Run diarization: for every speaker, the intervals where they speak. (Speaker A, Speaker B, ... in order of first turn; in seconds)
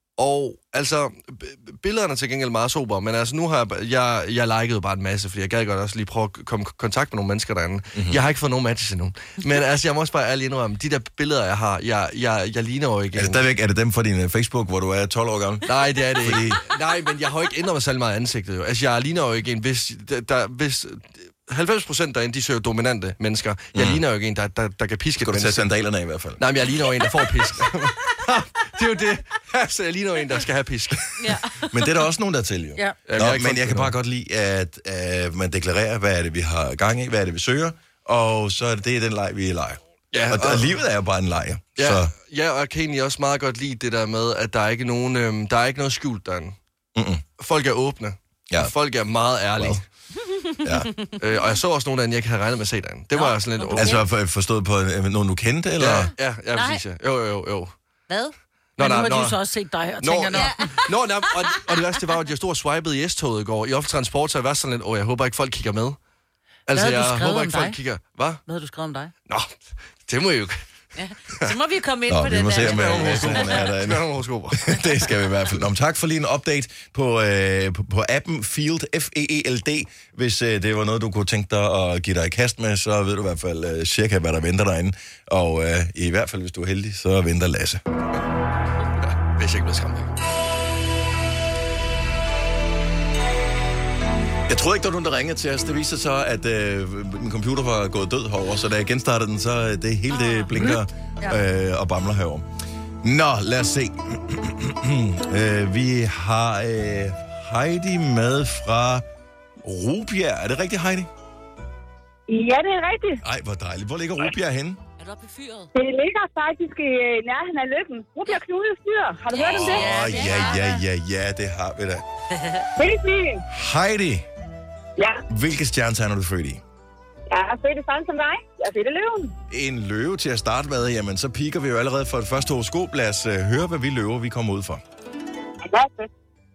Speaker A: 0.2-13.4, 15.7-25.7, 26.4-31.3, 33.1-33.9, 40.1-40.7, 41.8-46.5, 47.4-49.8, 51.2-54.0, 55.8-57.7, 58.8-59.4, 60.0-66.0, 66.7-68.4, 69.3-70.6, 72.5-74.8, 89.3-90.1
Speaker B: 7.9-8.2, 13.1-16.6, 23.7-24.0, 25.2-26.4, 31.7-42.1, 47.0-47.2, 49.5-49.8, 50.6-50.9, 53.7-56.1, 72.1-87.8, 94.5-102.4, 103.0-109.0, 109.6-111.1, 113.2-114.8, 119.4-122.0, 123.5-124.2, 125.3-126.6, 129.5-134.8
Speaker C: 31.2-31.9, 50.5-51.1, 53.1-54.0, 56.5-56.8, 60.3-61.6, 71.0-73.7, 100.2-100.5, 115.0-115.7, 119.3-120.8, 122.3-122.6
Speaker D: 58.1-60.5, 66.7-67.8, 68.5-69.1, 100.5-101.4
Speaker E: 112.3-113.2, 115.7-120.2, 122.8-123.4, 125.0-125.2, 127.3-129.3, 135.6-136.1